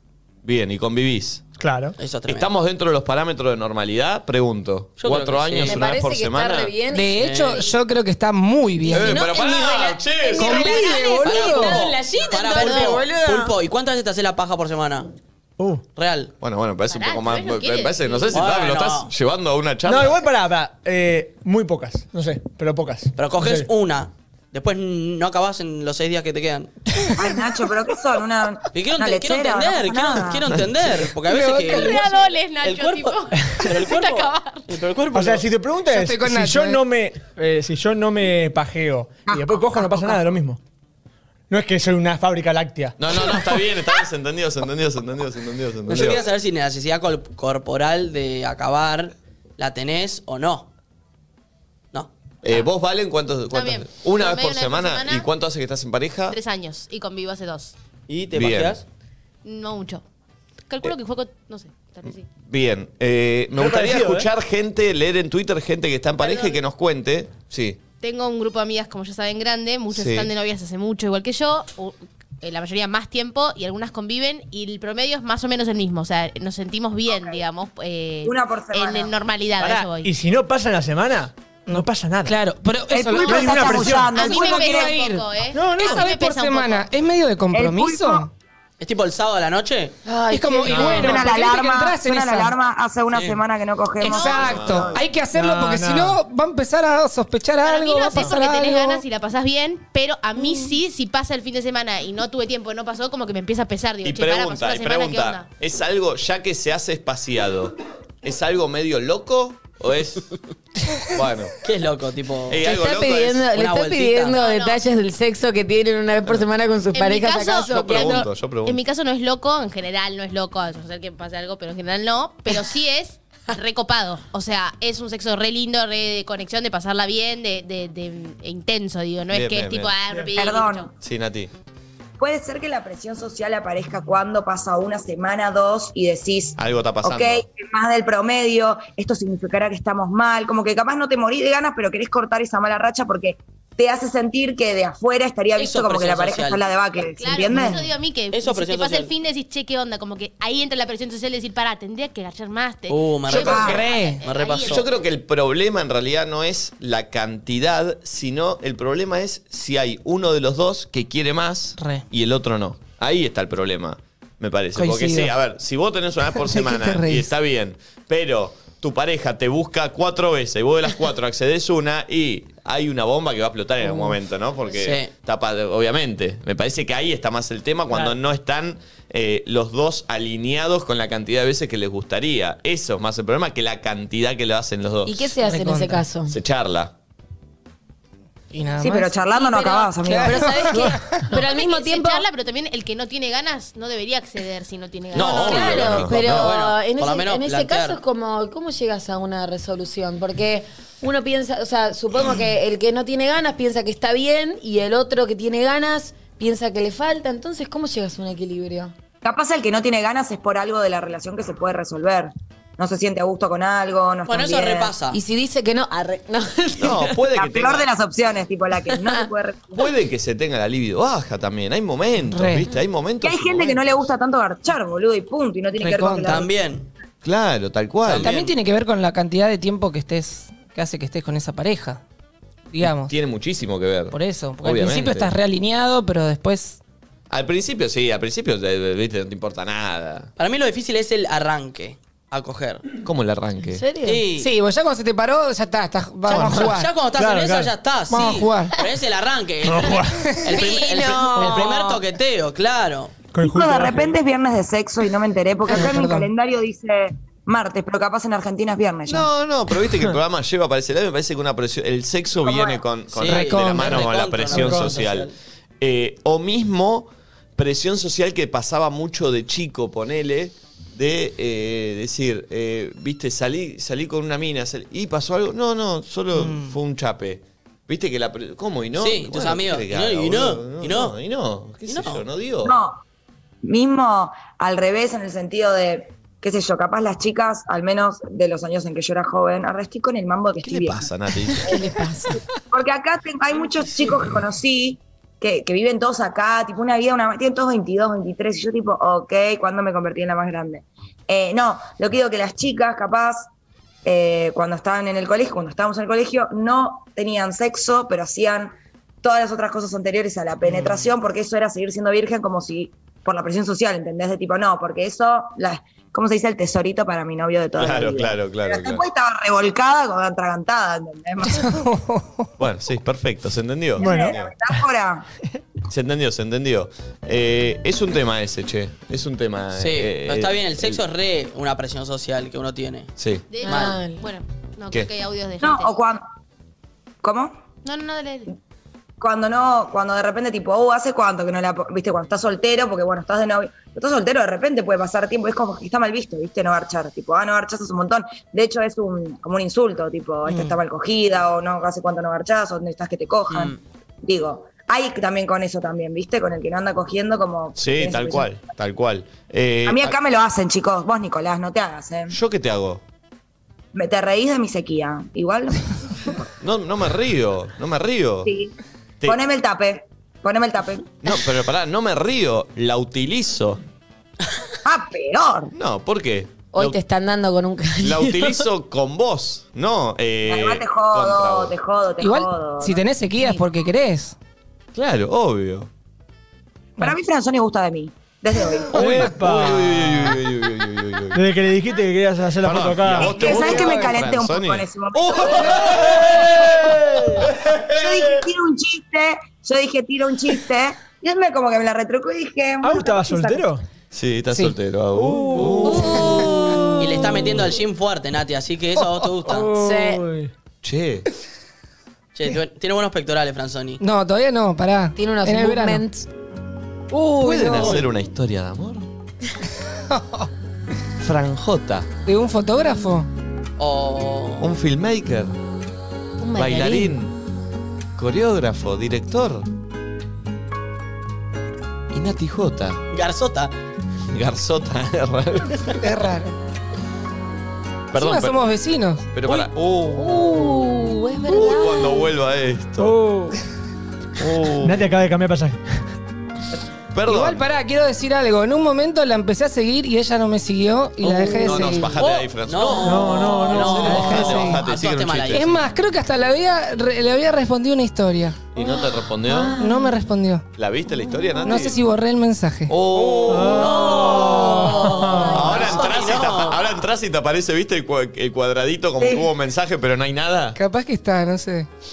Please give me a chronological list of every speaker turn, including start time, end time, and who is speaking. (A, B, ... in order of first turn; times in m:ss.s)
0:00.4-0:01.4 A
0:01.6-0:01.9 B
0:02.0-0:02.5 C
0:02.3-0:06.7 A
0:05.0-0:05.8 C
0:05.6-0:07.1 D
0:06.9-0:09.2 E
0:07.2-0:07.7 C
0:08.9-0:13.5 D
0:08.9-0:10.8 A
0:10.4-0:11.8 E
0:11.2-0:15.1 C
0:12.6-0:12.8 F
0:16.0-0:16.3 C
0:16.4-0:20.2 A
0:16.9-0:18.4 F
0:18.3-0:19.1 C
0:19.8-0:23.7 B
0:23.2-0:26.7 C
0:27.1-0:30.5 G
0:28.7-0:35.4 C
0:30.5-0:30.9 A
0:31.2-0:32.1 E
0:31.6-0:34.7 F
0:35.1-0:40.6 B
0:35.9-0:36.8 E
0:39.3-0:40.3 G
0:41.5-0:43.0 B
0:43.0-0:46.2 A
0:45.9-0:50.7 C
0:51.9-0:52.5 C
0:52.4-0:56.4 A
0:53.5-0:55.3 F
0:56.3-0:57.7 F
0:58.1-0:58.8 C
0:58.3-0:58.8 A
0:59.4-1:00.0 F
1:00.7-1:02.2 F
1:02.4-1:07.8 A
1:03.6-1:04.3 B
1:06.3-1:06.5 F
1:08.0-1:20.1 F
1:09.9-1:10.3 A
1:17.1-1:17.4 G
1:18.2-1:19.2 G
1:19.6-1:22.4 B
1:21.7-1:28.3 E
1:22.9-1:25.0 G
1:23.2-1:24.2 B
1:24.1-1:26.9 F
1:25.5-1:26.0 B
1:27.5-1:28.2 G
1:28.8-1:30.0 C
1:30.1-1:30.9 D
1:30.3-1:32.5 E
1:30.7-1:31.2 A
1:30.8-1:35.0 G
1:33.1-1:33.4 C
1:34.0-1:39.0 E
1:34.0-1:34.7 F
1:34.3-1:35.0 A
1:35.3-1:36.2 B
1:37.6-1:45.5 F
1:44.0-1:50.2 A
1:51.1-1:51.5 A
1:51.6-1:52.7 C
1:52.5-1:53.5 A
1:52.6-1:58.3 D
1:53.5-1:54.4 C
1:54.3-1:54.8 F
1:56.9-2:10.9 F
1:57.7-1:58.8 A
2:09.3-2:09.9 A
2:10.3-2:10.9 G
2:11.0-2:11.5 A
2:12.2-2:27.9 G
2:16.6-2:17.4 A
2:25.6-2:26.6 C
2:27.2-2:34.9 F
2:27.5-2:27.8 C
2:28.3-2:29.1 C
2:32.9-2:34.9 C
2:33.3-2:33.8 G
2:33.7-2:34.2 E
2:34.6-3:05.3 A
2:41.8-2:42.0 E
2:44.8-2:45.3 E
2:46.4-2:47.3 E
2:54.8-2:55.1 C
3:05.0-3:06.3 D
3:05.4-3:06.0 E
3:06.3-3:06.9 A
3:08.5-3:09.2 E
3:08.8-3:10.6 G
3:09.4-3:09.9 F
3:10.0-3:11.2 E
3:10.1-3:12.2 D
3:11.3-3:15.9 F
3:15.1-3:16.5 A
3:15.1-3:28.9 D
3:15.2-3:18.0 C
3:29.2-3:34.9 G
3:34.3-3:35.2 C
3:35.1-3:37.1 D
3:36.8-3:37.9 A
3:37.3-3:39.8 G
3:39.7-3:43.8 A
3:42.3-3:42.7 E
3:43.2-3:46.5 G
3:45.8-3:46.4 E
3:46.2-3:46.9 C
3:47.2-3:48.3 A
3:48.0-3:48.5 C
3:48.2-3:52.0 E
3:52.7-3:53.1 E
3:52.8-3:55.3 A
3:54.1-3:56.8 E
3:57.3-4:00.3 A
4:00.4-4:02.8 C
4:03.0-4:03.8 A
4:04.0-4:04.5 C
4:04.0-4:06.9 E
4:06.3-4:07.7 B
4:06.3-4:13.1 C
4:08.1-4:08.8 E
4:09.6-4:10.3 B
4:10.5-4:11.8 D
4:11.4-4:11.8 B
4:13.3-4:14.1 B
4:13.4-4:19.3 G
4:15.7-4:16.3 E
4:19.1-4:42.8 A
4:22.4-4:22.8 G
4:23.1-4:25.3 C
4:23.2-4:24.0 E
4:24.5-4:25.0 B
4:36.3-4:36.7 E
4:39.0-4:41.2 C
4:41.9-4:42.2 C
4:42.6-4:43.0 G
4:43.6-4:51.1 G
4:50.6-4:51.8 A
4:51.6-4:52.4 D
4:52.7-5:03.5 G
5:04.0-5:21.8 G
5:17.8-5:19.0 A
5:21.4-5:22.5 E
5:22.6-5:24.5 A
5:24.0-5:24.4 B
5:24.0-5:25.2 G
5:25.9-5:31.0 A
5:29.8-5:33.1 C
5:33.2-5:33.4 A
5:33.5-5:36.0 F
5:33.6-5:34.0 C
5:33.6-5:34.3 D
5:35.6-5:36.2 G
5:37.2-5:37.6 G
5:37.8-5:38.5 F
5:39.2-5:58.5 G
5:53.5-5:53.8 C
5:57.8-6:00.1 A
5:59.8-6:02.3 G
6:02.3-6:03.0 A
6:03.9-6:06.5 G
6:06.6-6:08.5 A
6:08.4-6:08.7 G
6:09.2-6:11.1 G
6:11.2-6:13.8 A
6:14.8-6:15.7 G
6:15.7-6:17.0 A
6:16.7-6:18.4 D
6:18.0-6:21.7 A
6:20.4-6:23.0 G
6:22.2-6:24.4 E
6:24.9-6:25.9 A
6:27.0-6:29.1 G
6:28.9-6:30.4 B
6:28.9-6:31.4 A
6:31.3-6:33.8 B
6:32.6-6:38.4 A
6:33.2-6:36.2 G
6:37.0-6:37.4 B
6:38.0-6:43.6 G
6:42.8-6:43.8 B
6:44.1-6:46.9 A
6:45.1-6:47.0 B
6:47.0-6:49.7 C
6:49.5-6:50.5 B
6:49.7-6:50.2 D
6:50.8-6:51.2 A
6:52.3-6:54.0 C
6:54.0-6:56.2 E
6:55.2-6:56.1 D
6:57.1-6:58.0 E
6:57.4-6:59.1 A
6:57.8-6:58.0 C
7:00.1-7:00.5 E
7:01.2-7:02.1 A
7:02.2-7:03.3 E
7:03.8-7:04.7 C
7:04.6-7:05.6 A
7:06.4-7:07.1 D
7:06.5-7:07.3 A
7:08.2-7:09.6 A
7:12.1-7:13.0 A
7:13.1-7:13.7 C
7:14.3-7:15.9 A
7:16.0-7:16.5 E
7:18.1-7:18.6 A
7:18.1-7:19.3 E
7:19.3-7:20.8 A
7:20.1-7:22.3 D
7:21.4-7:23.2 A
7:23.0-7:23.6 B
7:24.4-7:25.2 A
7:24.8-7:25.8 B
7:27.1-7:27.6 A
7:27.2-7:32.2 E
7:31.2-7:35.7 A
7:32.2-7:35.7 C
7:33.0-7:34.6 B
7:34.0-7:34.8 E
7:35.5-7:38.6 E
7:38.7-7:39.7 A
7:38.8-7:40.2 D
7:39.8-7:40.6 E
7:40.8-7:42.0 A
7:41.2-7:41.7 D
7:41.6-7:42.9 E
7:42.9-7:44.4 A
7:43.5-7:45.6 B
7:43.8-7:46.9 C
7:44.9-7:46.1 D
7:45.5-7:50.8 A
7:49.2-7:49.5 G
7:50.8-7:51.9 E